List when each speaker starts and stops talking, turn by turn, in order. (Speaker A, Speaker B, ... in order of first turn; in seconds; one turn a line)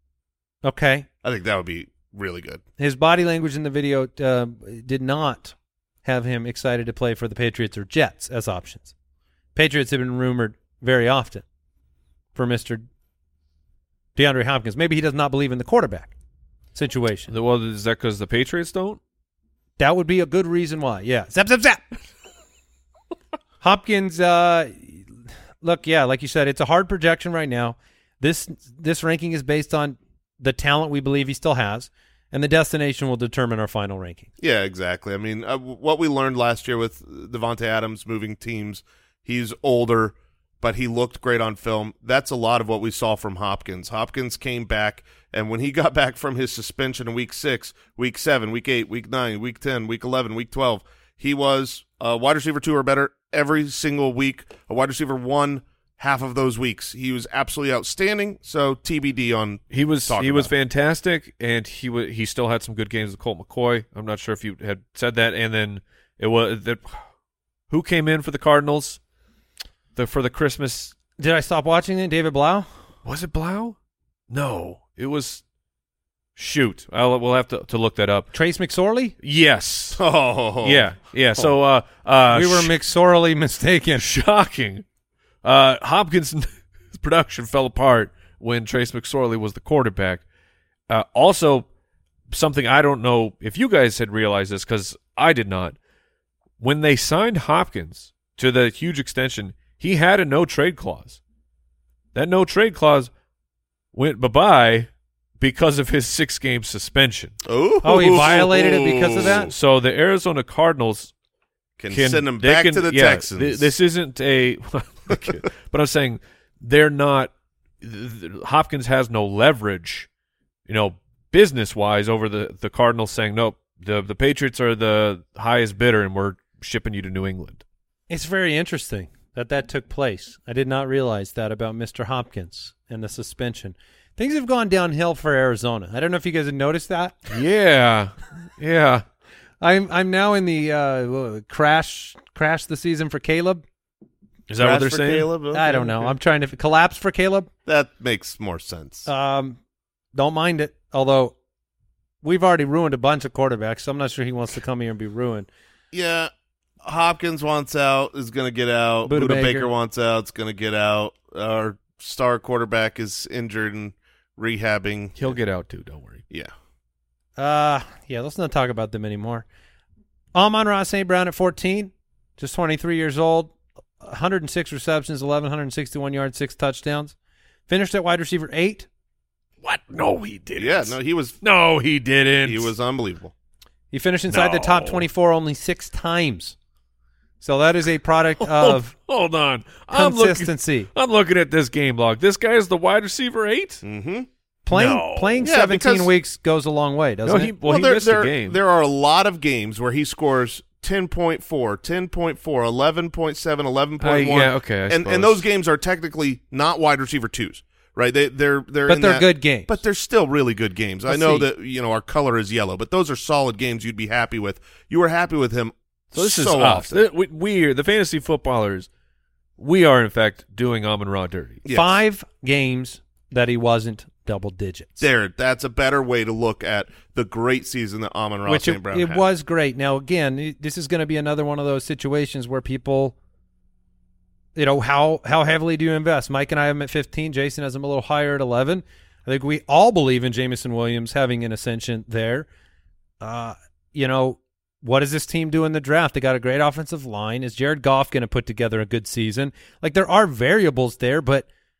Speaker A: 0.6-1.1
Speaker B: 1.2-2.6
Speaker A: 2.8-8.9
Speaker A: 9.5-11.4
Speaker A: 12.3-12.8
Speaker A: 14.2-16.1
Speaker A: 16.7-17.3
Speaker C: 17.3-19.0
Speaker A: 19.8-21.9
Speaker A: 23.6-34.3
Speaker B: 34.4-60.5
Speaker C: 59.7-67.0
Speaker C: 67.7-69.0
Speaker C: 69.9-70.9
Speaker A: 71.2-72.7
Speaker C: 73.0-73.7
Speaker C: 74.3-75.4
Speaker C: 76.4-78.3
Speaker A: 78.3-79.1
Speaker C: 79.2-80.0
Speaker B: 80.0-80.8
Speaker C: 80.6-82.7
Speaker A: 82.3-84.0
Speaker C: 84.0-84.8
Speaker C: 85.4-90.2
Speaker C: 90.9-91.7
Speaker C: 92.3-95.8
Speaker C: 96.6-101.2
Speaker C: 102.1-103.1
Speaker C: 103.9-104.9
Speaker C: 105.4-107.3
Speaker B: 107.5-109.5
Speaker A: 107.8-109.5
Speaker C: 109.5-111.1
Speaker B: 111.8-113.6
Speaker C: 111.9-120.1
Speaker C: 120.7-127.6
Speaker A: 128.1-137.3
Speaker C: 137.3-139.0
Speaker A: 139.6-143.6
Speaker C: 144.5-145.3
Speaker B: 144.6-146.1
Speaker A: 145.5-147.5
Speaker B: 147.7-149.1
Speaker A: 149.1-149.6
Speaker A: 150.1-151.3
Speaker A: 152.2-155.5
Speaker B: 155.9-156.3
Speaker B: 156.8-165.4
Speaker A: 159.1-159.7
Speaker C: 165.2-166.2
Speaker A: 167.4-169.4
Speaker A: 170.3-177.1
Speaker A: 177.7-178.9
Speaker C: 179.6-182.7
Speaker B: 180.6-181.4
Speaker B: 182.4-183.3
Speaker A: 183.9-186.6
Speaker C: 184.3-185.1
Speaker A: 187.4-188.9
Speaker C: 188.4-193.8
Speaker A: 189.9-190.9
Speaker B: 193.8-194.3
Speaker A: 194.7-197.5
Speaker C: 194.7-195.4
Speaker B: 195.4-196.1
Speaker C: 197.2-198.6
Speaker B: 197.7-217.0
Speaker C: 204.0-205.4
Speaker A: 208.8-209.8
Speaker A: 211.1-211.4
Speaker C: 216.1-218.9
Speaker C: 219.6-221.6
Speaker B: 221.6-222.0
Speaker A: 221.7-225.0
Speaker B: 225.0-229.2
Speaker A: 228.4-233.1
Speaker A: 234.6-242.5
Speaker A: 243.2-251.5